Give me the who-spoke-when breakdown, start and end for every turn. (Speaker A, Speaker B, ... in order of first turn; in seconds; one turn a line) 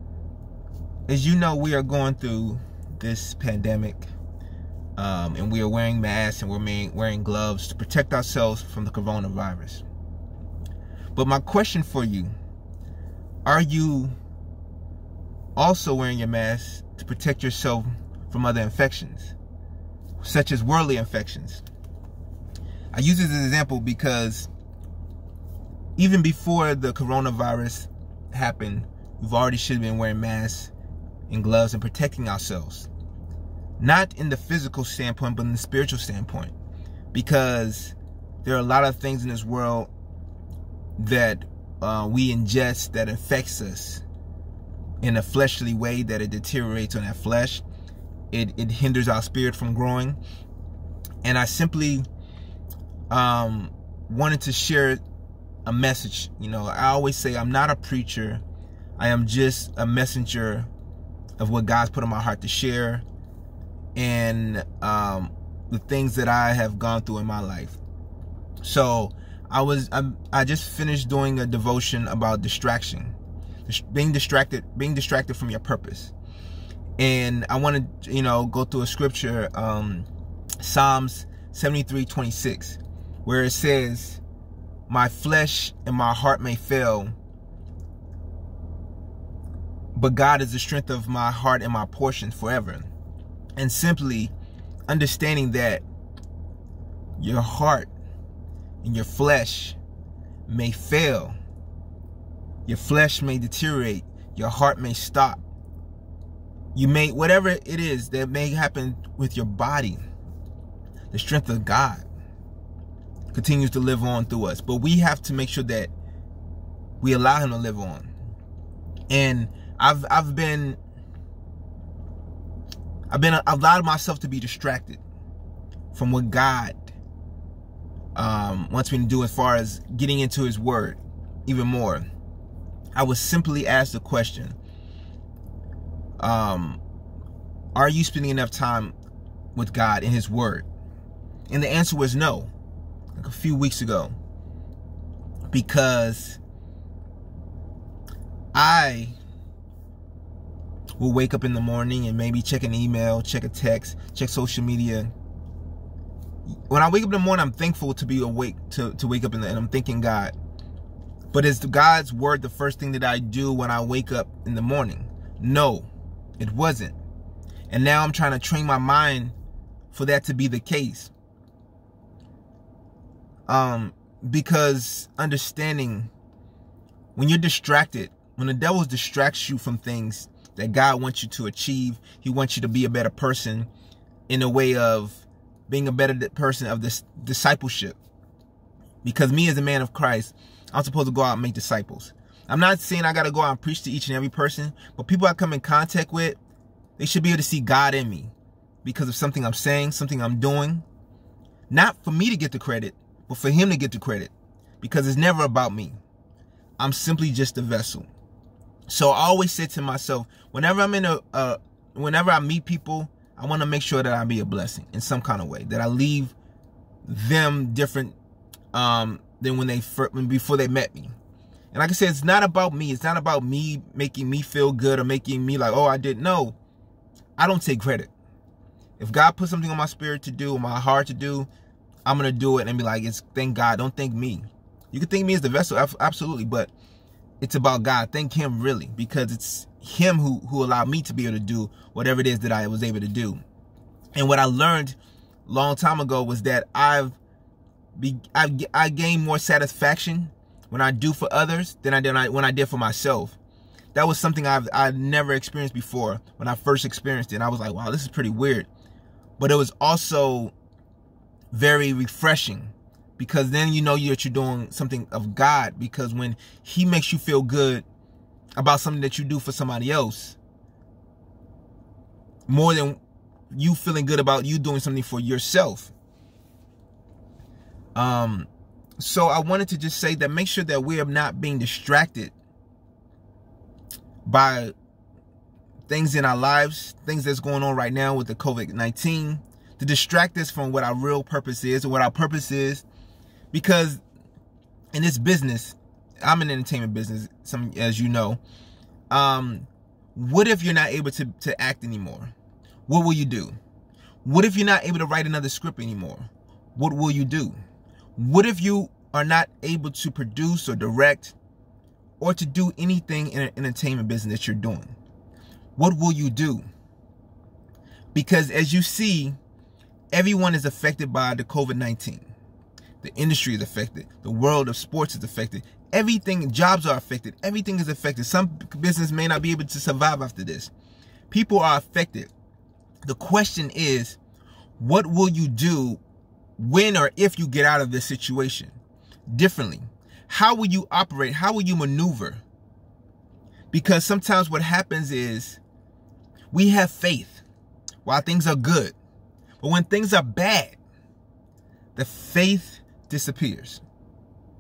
Speaker A: 1.1-4.1
Speaker A: 5.0-9.8
Speaker A: 11.2-12.3
Speaker A: 13.5-14.2
Speaker A: 15.6-19.3
Speaker A: 20.2-21.6
Speaker A: 22.9-24.5
Speaker A: 26.0-30.7
Speaker A: 31.3-32.9
Speaker A: 33.8-36.5
Speaker A: 37.1-39.9
Speaker A: 41.0-44.0
Speaker A: 45.0-47.6
Speaker A: 48.3-50.2
Speaker A: 51.2-52.1
Speaker A: 53.1-55.0
Speaker A: 55.7-58.4
Speaker A: 59.0-60.7
Speaker A: 61.4-63.0
Speaker A: 64.0-67.8
Speaker A: 68.6-73.2
Speaker A: 73.7-76.1
Speaker A: 77.0-80.1
Speaker A: 80.6-84.2
Speaker A: 84.9-87.2
Speaker A: 89.9-92.9
Speaker A: 93.6-94.3
Speaker A: 94.9-95.8
Speaker A: 97.2-97.9
Speaker A: 98.8-99.8
Speaker A: 100.5-101.4
Speaker A: 102.7-105.4
Speaker A: 106.8-110.0
Speaker A: 111.1-112.1
Speaker A: 113.3-115.9
Speaker A: 117.0-118.1
Speaker A: 119.1-120.8
Speaker A: 123.1-125.0
Speaker A: 125.9-126.9
Speaker A: 128.2-132.1
Speaker A: 132.9-134.6
Speaker A: 136.2-136.8
Speaker A: 137.8-138.9
Speaker A: 139.6-140.7
Speaker A: 141.5-142.5
Speaker A: 143.2-144.2
Speaker A: 145.5-146.4
Speaker A: 148.5-149.2
Speaker A: 151.0-155.1
Speaker A: 156.7-160.3
Speaker A: 161.3-165.9
Speaker A: 166.4-167.0
Speaker A: 167.7-169.4
Speaker A: 169.9-171.1
Speaker A: 173.5-176.1
Speaker A: 177.2-183.7
Speaker A: 184.3-188.0
Speaker A: 189.0-196.4
Speaker A: 197.0-198.3
Speaker A: 198.8-200.8
Speaker A: 201.7-206.0
Speaker A: 206.8-208.1
Speaker A: 208.9-216.3
Speaker A: 217.1-218.2
Speaker A: 218.7-221.2
Speaker A: 221.7-226.6
Speaker A: 227.4-228.1
Speaker A: 229.0-231.5
Speaker A: 232.1-236.7
Speaker A: 237.4-243.4
Speaker A: 244.2-247.2
Speaker A: 248.0-253.4
Speaker A: 253.9-258.7
Speaker A: 259.4-260.5
Speaker A: 261.5-267.9
Speaker A: 268.6-270.4
Speaker A: 272.5-273.0
Speaker A: 273.5-275.9
Speaker A: 277.9-282.3
Speaker A: 284.2-284.7
Speaker A: 285.9-292.9
Speaker A: 293.5-294.0
Speaker A: 294.9-298.4
Speaker A: 299.1-302.3
Speaker A: 302.9-303.6
Speaker A: 304.2-307.6
Speaker A: 308.2-311.4
Speaker A: 312.2-314.9
Speaker A: 315.8-316.7
Speaker A: 318.1-319.4
Speaker A: 320.1-322.3
Speaker A: 323.0-330.7
Speaker A: 331.3-332.3
Speaker A: 333.1-334.2
Speaker A: 334.8-336.0
Speaker A: 336.6-338.8
Speaker A: 339.3-342.4
Speaker A: 343.7-345.6
Speaker A: 346.5-347.4
Speaker A: 348.1-348.9
Speaker A: 349.6-350.8
Speaker A: 351.9-353.8